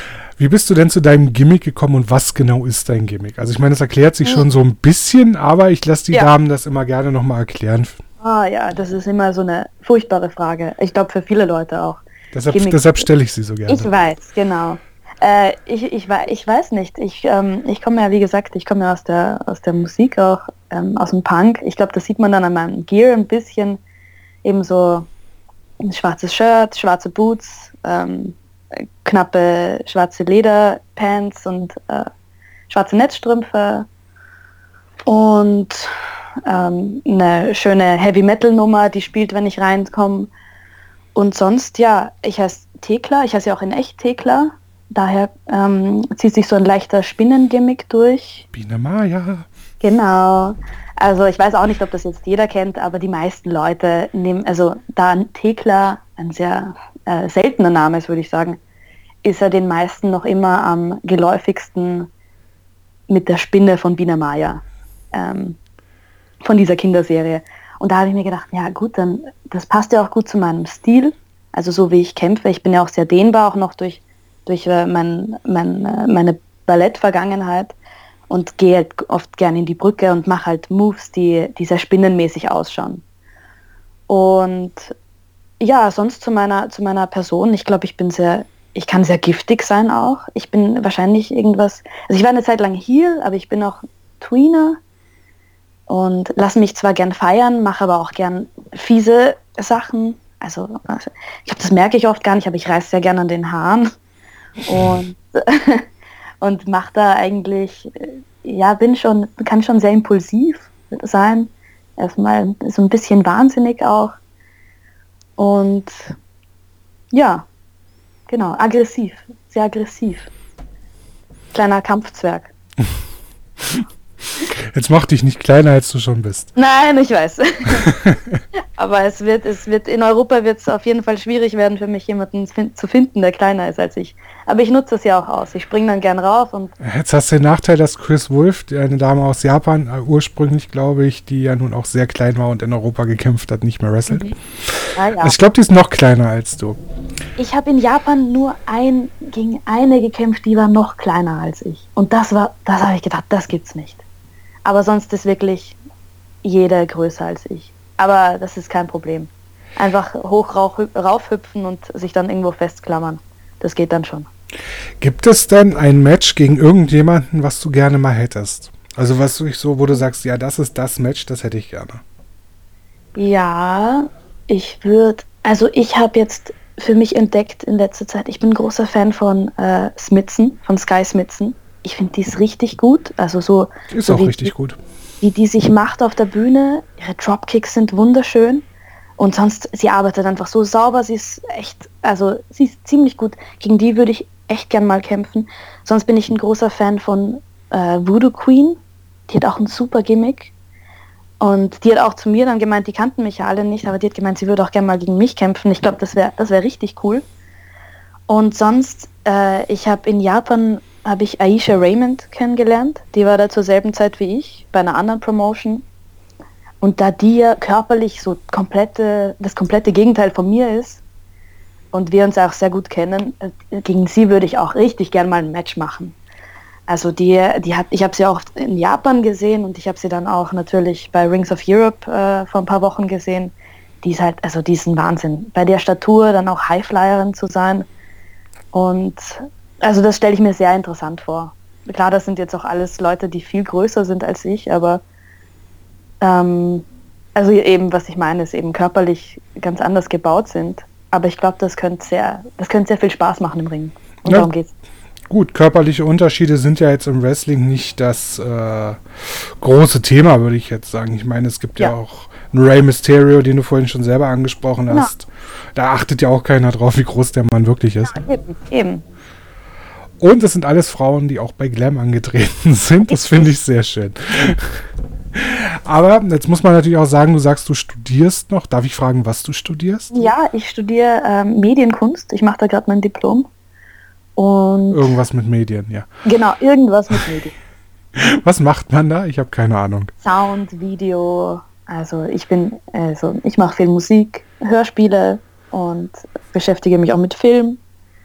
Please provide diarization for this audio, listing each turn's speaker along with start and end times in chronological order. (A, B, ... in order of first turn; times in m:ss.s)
0:00.4-0:08.0 A
0:08.2-0:13.0 B
0:12.3-0:13.9 A
0:13.7-0:23.8 B
0:24.4-0:25.1 B
0:25.8-0:28.4 B
0:29.0-0:32.1 B
0:32.7-0:33.9 B
0:35.1-0:35.9 B
0:36.4-0:40.3 B
0:41.1-0:48.4 B
0:48.5-0:49.5 A
0:49.8-0:58.6 B
0:59.2-1:02.1 B
1:03.1-1:05.6 B
1:06.4-1:17.7 B
1:18.3-1:23.0 B
1:24.1-1:24.9 B
1:25.6-1:34.8 B
1:35.9-1:43.9 B
1:44.6-1:45.8 B
1:46.4-1:54.2 B
1:55.4-1:56.1 B
1:57.1-1:57.4 B
1:58.3-2:00.3 B
2:01.5-2:02.5 B
2:04.6-2:06.5 A
2:06.6-2:07.9 B
2:07.9-2:08.4 A
2:08.8-2:16.7 B
2:16.8-2:26.8 A
2:24.1-2:24.3 B
2:24.9-2:25.3 B
2:27.4-2:34.0 B
2:34.6-2:35.8 B
2:36.4-2:44.3 B
2:45.0-2:52.0 A
2:53.2-3:04.5 B
3:03.9-3:04.8 A
3:05.2-3:08.6 B
3:09.2-3:20.5 B
3:21.4-3:27.2 B
3:28.3-3:35.8 B
3:36.8-3:41.0 B
3:41.9-3:46.1 B
3:46.9-3:57.9 B
3:58.7-4:05.0 B
4:06.2-4:14.7 B
4:15.3-4:28.2 A
4:28.0-4:29.0 B
4:30.2-4:34.8 A
4:33.1-4:33.5 B
4:35.3-4:40.3 A
4:40.1-4:43.5 B
4:44.4-4:45.1 B
4:44.9-4:46.1 A
4:46.2-4:47.5 B
4:48.2-4:50.1 A
4:50.2-4:57.8 B